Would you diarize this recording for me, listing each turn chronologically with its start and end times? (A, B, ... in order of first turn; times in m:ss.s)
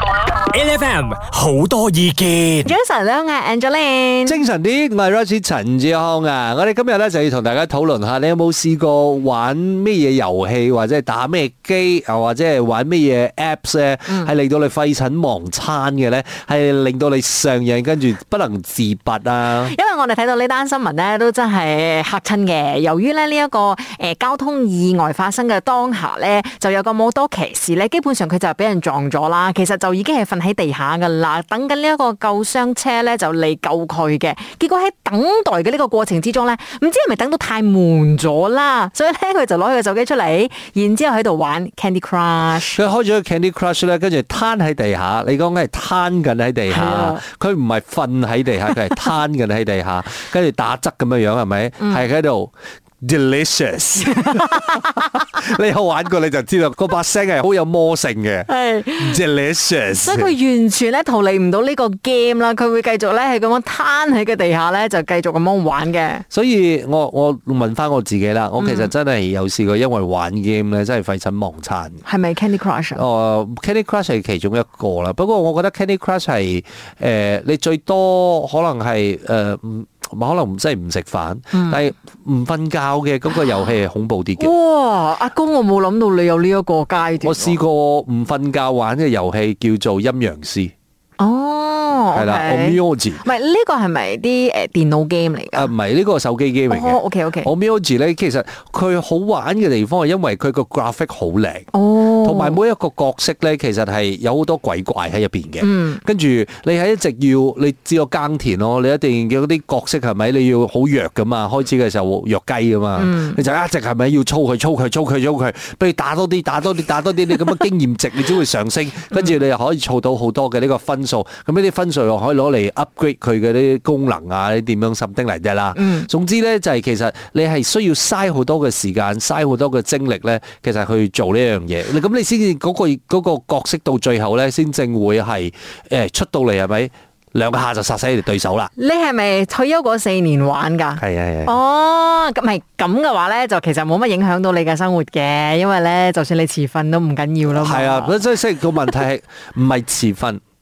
0:00.5-0:02.7 A
0:02.7-0:04.4 B
0:04.3-0:19.8 C
0:19.7-0:42.8 B
0:42.7-0:52.5 C
0:46.7-0:47.2 B
0:53.0-1:00.3 C
0:58.5-0:59.2 B
1:00.0-1:06.2 B
1:06.3-1:12.0 C
1:08.6-1:08.9 B
1:12.1-1:13.0 B
1:13.0-1:24.5 C
1:21.5-1:21.8 B
1:24.4-1:27.6 B
1:27.2-1:30.7 C
1:31.2-1:35.7 B
1:32.1-1:33.2 C
1:35.6-1:41.7 C
1:36.7-1:37.5 B
1:41.7-1:42.6 B
1:42.2-2:18.7 C
1:45.6-1:46.0 B
1:53.0-1:53.4 B
2:05.8-2:06.1 B
2:18.8-2:28.2 B
2:21.0-2:21.6 C
2:27.5-2:30.4 C